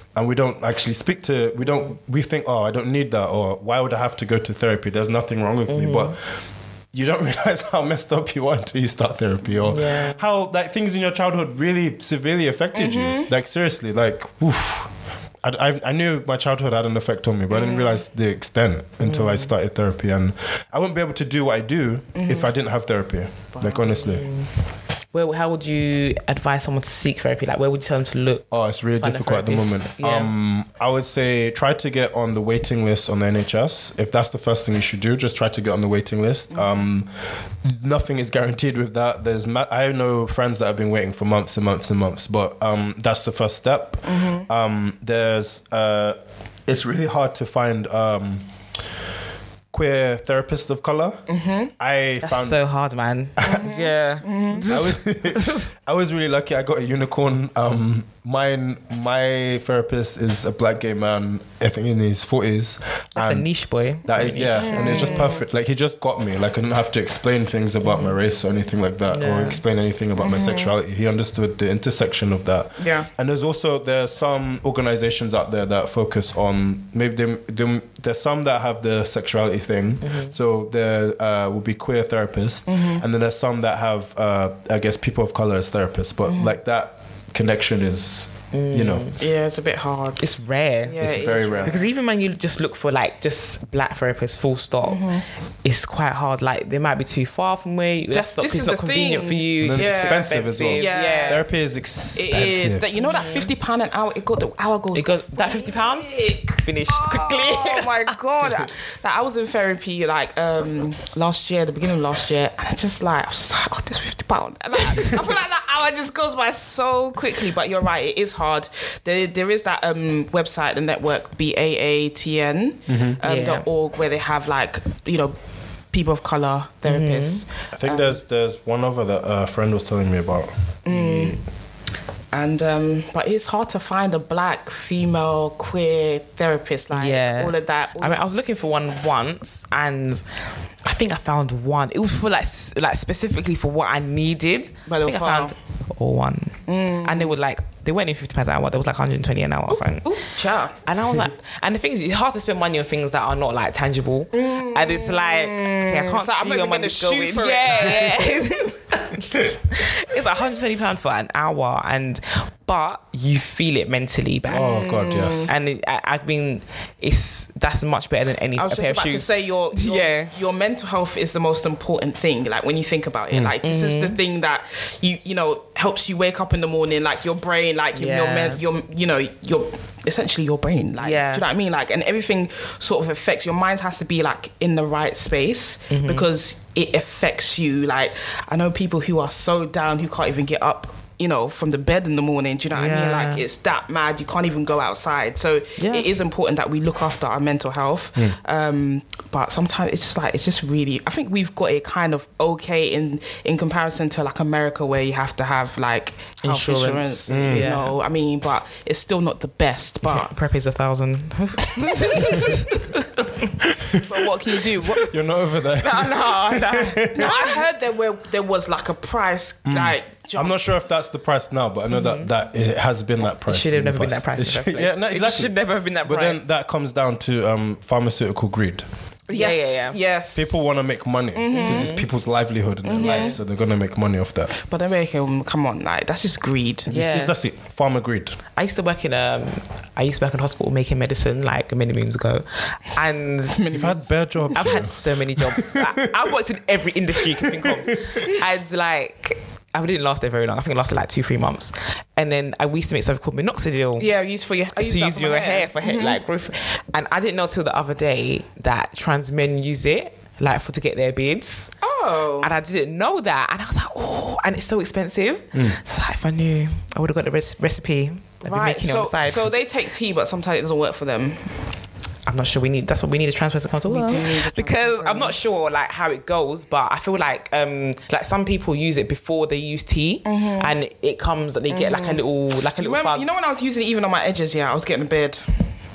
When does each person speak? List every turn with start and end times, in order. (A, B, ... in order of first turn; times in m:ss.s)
0:00.2-0:06.3 A
0:05.7-0:06.1 B
0:06.9-0:14.9 A
0:09.6-0:10.2 B
0:12.8-0:13.3 C
0:15.4-0:24.3 A
0:17.5-0:18.0 C
0:19.0-0:19.5 B
0:22.1-0:22.5 C
0:23.8-0:24.5 B
0:25.1-0:30.3 B
0:28.5-0:37.1 A
0:37.6-0:48.5 A
0:44.0-0:44.5 C
0:49.7-0:51.2 A
0:51.3-0:51.7 C
0:51.8-0:52.6 A
0:52.2-0:55.7 B
0:53.4-0:53.7 A
0:53.4-0:54.7 C
0:54.7-1:03.5 A
1:03.2-1:05.3 B
1:04.0-1:29.1 A
1:04.6-1:05.4 C
1:07.8-1:08.2 B
1:09.1-1:09.6 B
1:10.2-1:10.7 C
1:12.8-1:13.1 C
1:20.0-1:20.4 B
1:22.7-1:23.0 C
1:26.3-1:26.6 C
1:28.5-1:29.2 B
1:29.2-1:31.9 C
1:30.2-1:41.4 B
1:31.0-1:31.8 A
1:34.8-1:35.3 C
1:38.1-1:41.4 C
1:39.6-1:42.9 A
1:42.2-1:46.3 C
1:43.0-1:43.5 B
1:44.9-1:48.1 B
1:46.9-2:05.4 C
2:02.9-2:03.2 A
2:03.2-2:03.7 B
2:05.9-2:08.2 C
2:06.8-2:07.4 B
2:07.7-2:11.4 A
2:10.9-2:11.4 C
2:12.3-2:18.3 C
2:16.9-2:20.2 B
2:20.8-2:30.2 B
2:24.9-2:25.5 C
2:26.7-2:27.4 C
2:29.7-2:30.8 C
2:30.8-2:44.8 B
2:34.3-2:38.4 C
2:44.5-2:45.5 A
2:44.5-2:45.5 C
2:45.5-2:50.4 B
2:48.6-3:30.3 C
2:53.6-2:54.2 B
2:58.0-2:58.6 B
3:01.0-3:01.4 B
3:05.9-3:06.3 B
3:12.7-3:13.4 B
3:15.8-3:16.1 B
3:26.4-3:28.0 B
3:27.3-3:27.7 A
3:30.1-3:33.6 B
3:31.8-3:32.8 C
3:33.9-3:35.1 C
3:34.8-3:35.1 B
3:35.0-3:37.4 A
3:35.7-3:37.6 B
3:37.1-3:40.7 C
3:39.7-3:48.9 A
3:41.9-3:42.3 B
3:43.4-3:46.5 B
3:49.3-3:50.6 C
3:49.3-3:50.0 B
3:50.4-3:54.5 A
3:51.4-3:51.9 C
3:51.5-3:52.1 B
3:52.8-3:53.4 C
3:53.0-3:53.4 B
3:54.5-3:56.9 C
3:56.9-3:57.4 B
3:56.9-3:58.4 A
3:58.6-4:03.8 B
4:03.5-4:04.6 C
4:03.7-4:06.2 A
4:04.5-4:14.1 B
4:07.2-4:08.3 A
4:14.0-4:16.2 C
4:14.8-4:21.8 B
4:21.8-4:22.5 C
4:22.4-4:29.5 B
4:28.4-4:31.6 C
4:32.3-4:43.3 B
4:33.9-4:35.4 C
4:40.2-4:40.7 C
4:41.7-4:42.2 C
4:42.8-4:45.8 C